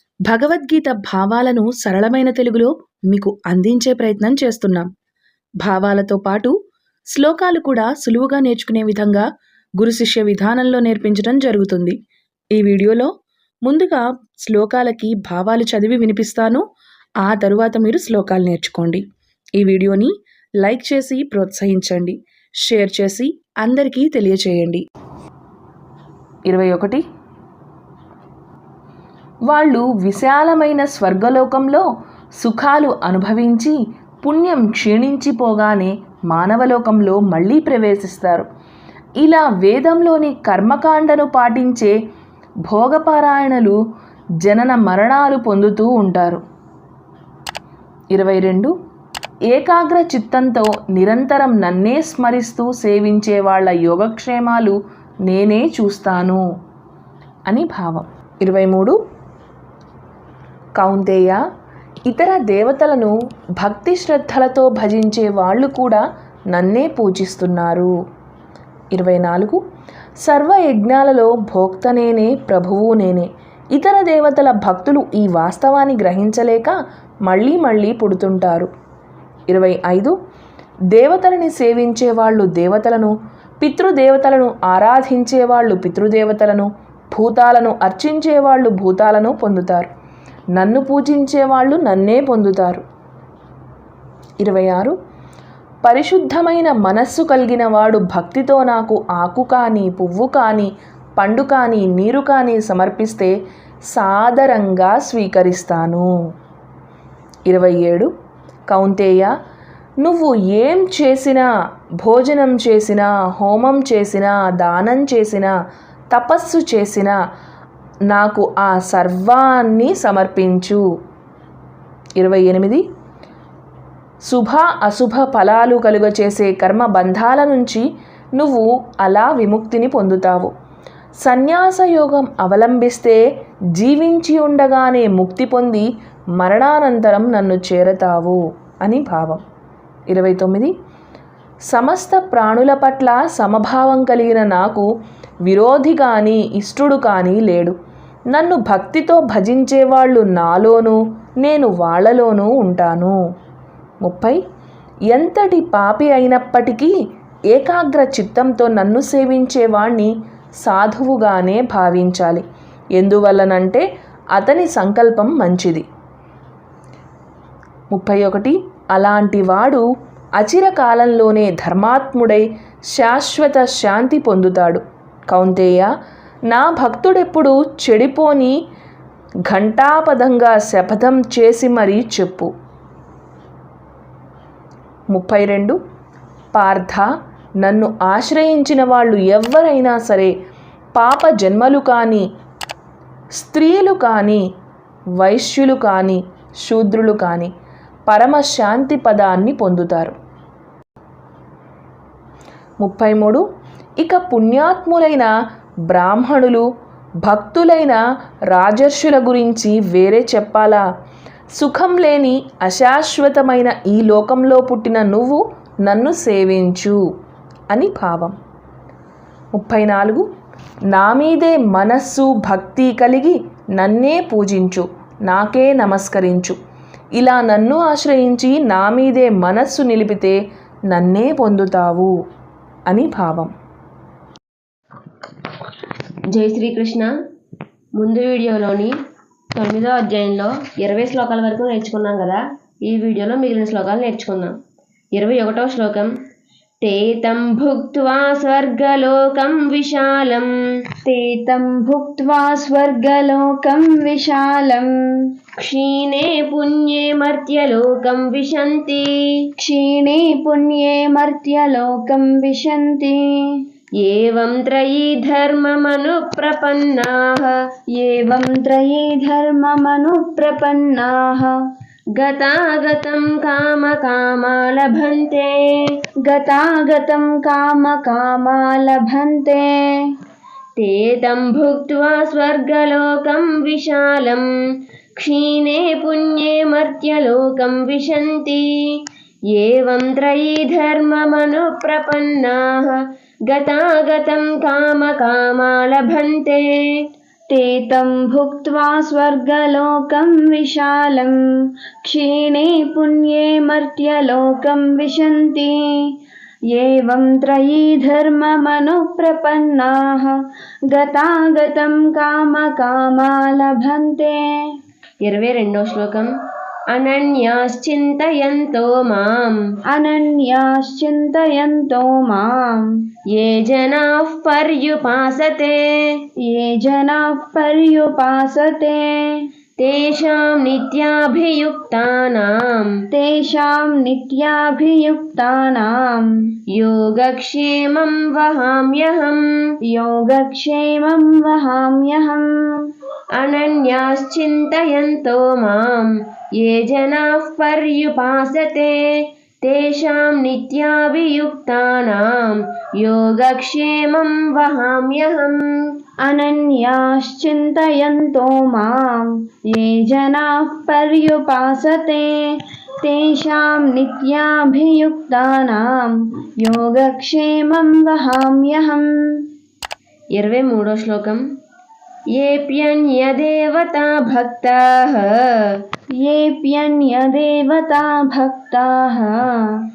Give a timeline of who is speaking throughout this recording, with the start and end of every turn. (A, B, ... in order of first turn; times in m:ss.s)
0:00.3-0:04.9 A
0:05.6-0:06.5 A
0:07.1-0:09.3 A
0:09.8-0:12.0 A
0:12.5-0:13.1 A
0:13.6-0:16.6 A
0:17.2-0:19.0 A
0:19.6-0:24.8 A
0:26.5-0:27.0 A
0:29.4-0:31.9 A
0:32.4-0:38.5 A
0:39.2-0:42.0 A
0:42.6-0:43.8 A
0:44.4-0:46.4 A
0:48.1-0:48.7 A
0:49.5-0:56.4 A
0:57.5-0:59.0 A
1:00.8-1:01.4 A
1:02.1-1:07.9 A
1:08.9-1:09.6 A
1:10.2-1:18.7 A
1:19.5-1:20.2 A
1:20.9-1:29.9 A
1:30.6-1:32.8 A
1:34.4-1:35.0 A
1:35.8-1:43.3 A
1:43.9-1:46.1 A
1:47.5-1:48.1 A
1:48.7-1:49.3 A
1:50.0-1:51.5 A
1:52.0-1:55.5 A
1:56.1-1:57.2 A
1:58.1-2:00.8 A
2:02.2-2:02.8 A
2:04.2-2:10.5 A
2:11.2-2:13.2 A
2:13.8-2:19.4 A
2:20.1-2:20.7 A
2:21.7-2:24.9 A
2:25.4-2:27.7 A
2:28.3-2:33.2 A
2:34.0-2:34.4 A
2:35.1-2:36.9 A
2:37.5-2:40.1 A
2:40.6-2:42.4 A
2:43.0-2:43.8 A
2:44.4-2:45.8 A
2:47.9-2:49.8 A
2:50.4-2:55.9 A
2:56.5-2:58.6 A
2:59.4-3:02.5 A
3:05.1-3:05.8 A
3:06.5-3:07.1 A
3:07.6-3:10.3 A
3:11.0-3:12.2 A
3:13.4-3:14.4 A
3:15.2-3:17.5 A
3:18.1-3:20.1 A
3:22.8-3:23.4 A
3:24.0-3:25.3 A
3:25.9-3:26.6 A
3:27.2-3:30.8 A
3:31.6-3:37.0 A
3:37.7-3:38.3 A
3:39.6-3:40.3 A
3:40.9-3:46.6 A
3:47.2-3:52.1 A
3:52.9-3:53.5 A
3:56.3-3:57.1 B
3:58.0-3:58.9 B
3:59.5-4:04.6 B
4:05.1-4:06.1 B
4:06.8-4:10.5 B
4:11.0-4:14.9 C
4:15.6-4:19.4 B
4:19.6-4:23.6 C
4:24.0-4:27.6 B
4:27.9-4:31.5 C
4:32.2-4:36.0 B
4:36.2-4:40.1 C
4:40.8-4:44.5 B
4:45.2-4:57.0 B
4:57.5-5:01.4 C
5:02.0-5:06.1 C
5:06.7-5:10.4 C
5:10.9-5:14.4 C
5:15.2-5:16.3 B
5:16.9-5:19.6 B
5:19.9-5:22.9 C
5:23.3-5:26.2 B
5:26.4-5:29.4 C
5:29.8-5:32.9 B
5:33.1-5:36.3 C
5:36.7-5:39.7 B
5:39.9-5:42.8 C
5:43.4-5:55.9 B
5:56.2-6:09.5 C
6:10.3-6:11.4 B
6:12.3-6:15.8 B
6:16.2-6:19.8 C